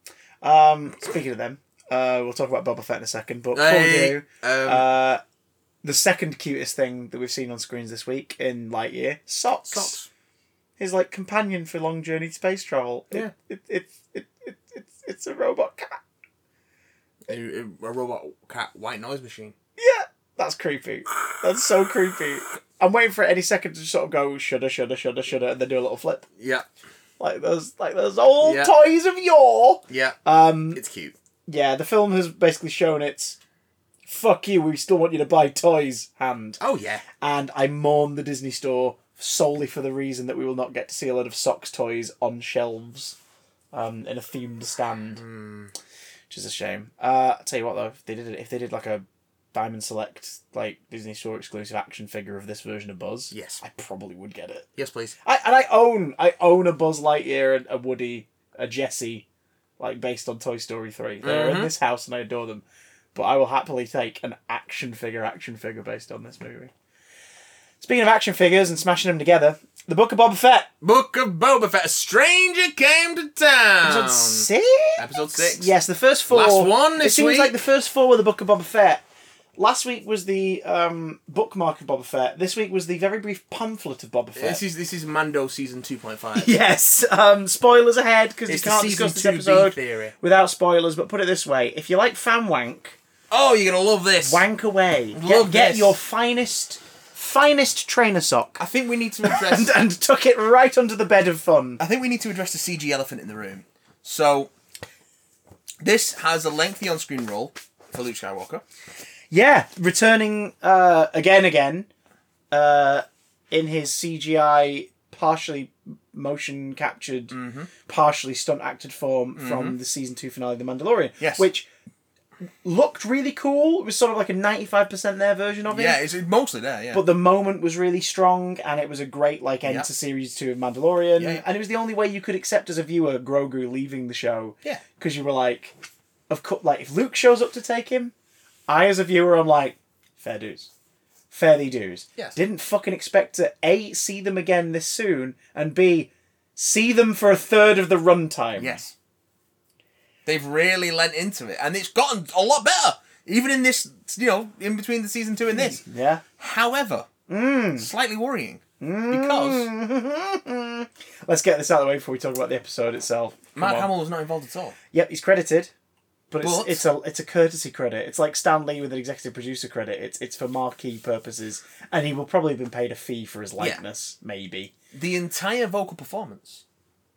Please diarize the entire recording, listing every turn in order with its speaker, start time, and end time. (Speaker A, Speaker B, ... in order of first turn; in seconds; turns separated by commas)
Speaker A: 0.4-5.2, Speaker B: 3.5-4.9, Speaker A: 5.8-10.0, Speaker B: 9.7-10.1, Speaker A: 10.8-16.0, Speaker B: 17.3-19.6, Speaker A: 19.8-26.2, Speaker B: 26.4-26.7, Speaker A: 27.2-30.8, Speaker B: 28.4-28.7, Speaker B: 29.9-30.2, Speaker B: 30.8-31.1, Speaker A: 31.5-33.4, Speaker A: 34.1-36.6, Speaker B: 36.6-37.0, Speaker A: 37.2-43.2, Speaker A: 43.7-45.2, Speaker B: 45.2-45.7, Speaker A: 46.3-54.7, Speaker B: 53.3-53.6, Speaker B: 54.8-55.1, Speaker A: 55.2-59.3, Speaker A: 59.8-66.7, Speaker B: 61.2-61.7, Speaker A: 67.8-70.7, Speaker B: 70.8-75.7, Speaker A: 73.8-79.0, Speaker B: 76.3-77.5, Speaker A: 79.6-84.6, Speaker B: 84.4-86.5, Speaker A: 86.3-93.0, Speaker B: 88.5-90.2, Speaker B: 93.3-94.4, Speaker A: 94.2-98.6, Speaker B: 95.1-96.0, Speaker B: 98.6-99.7, Speaker A: 99.2-101.8, Speaker B: 101.8-104.5, Speaker B: 105.8-108.6, Speaker A: 109.3-111.9, Speaker A: 112.5-121.7, Speaker B: 117.3-117.7, Speaker B: 119.4-119.8, Speaker B: 121.2-121.5, Speaker A: 122.6-126.0, Speaker B: 125.7-127.0, Speaker A: 126.9-135.7, Speaker B: 131.2-131.4, Speaker A: 136.3-138.1, Speaker A: 138.7-140.7, Speaker A: 141.3-148.8, Speaker B: 148.6-148.9, Speaker B: 150.3-155.8, Speaker A: 155.5-156.2, Speaker B: 156.4-157.1, Speaker A: 157.3-157.9, Speaker B: 157.8-159.7, Speaker A: 158.8-163.9, Speaker B: 163.6-164.8, Speaker A: 164.9-165.7, Speaker A: 166.3-174.7, Speaker B: 166.4-166.8, Speaker B: 174.9-176.6